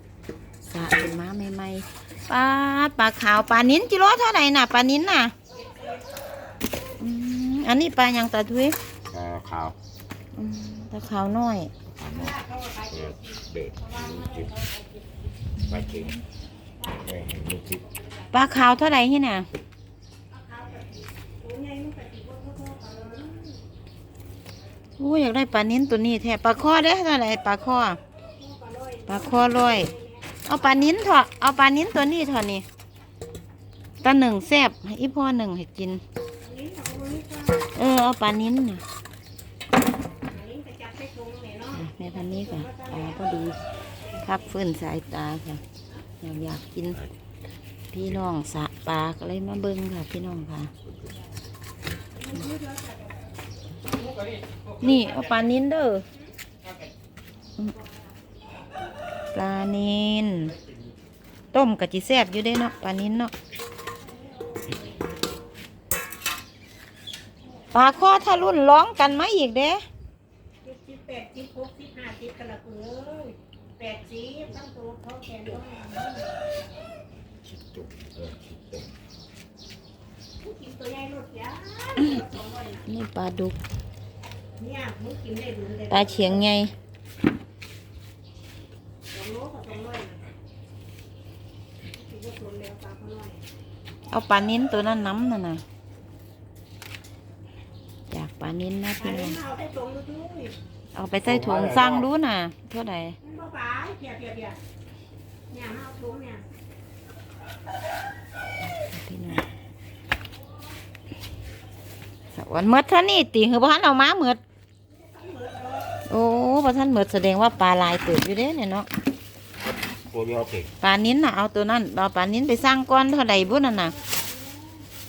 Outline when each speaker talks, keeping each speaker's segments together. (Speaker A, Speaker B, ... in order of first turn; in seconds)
Speaker A: 0.6-5.3, 7.0-8.8, 10.3-11.7, 18.3-19.5, 25.0-28.0, 29.1-29.9, 30.4-32.6, 34.0-36.0, 37.7-38.8, 41.7-43.6, 44.2-45.6, 46.2-47.0, 47.9-50.7, 54.8-56.0, 59.3-60.5, 61.5-63.3, 67.7-69.8, 82.9-83.6, 85.9-86.7, 94.1-95.6, 98.1-99.4, 100.9-103.2, 108.6-109.5, 112.3-114.4, 116.1-118.9, 120.8-123.9
Speaker B: 5.5-6.0, 12.1-15.2, 16.8-17.2, 20.3-23.6, 28.4-31.2, 36.4-37.7, 40.3-43.4, 52.2-53.2, 64.1-64.8, 70.6-76.4, 80.4-82.9, 84.6-86.5, 89.1-90.2, 91.9-93.4, 99.0-100.5, 103.2-104.6, 105.5-106.4, 114.9-115.9, 123.3-124.9
Speaker C: 9.1-9.8, 12.0-12.4, 12.9-14.5, 15.6-16.2, 17.0-17.8, 77.5-78.9, 101.2-102.1, 120.0-120.7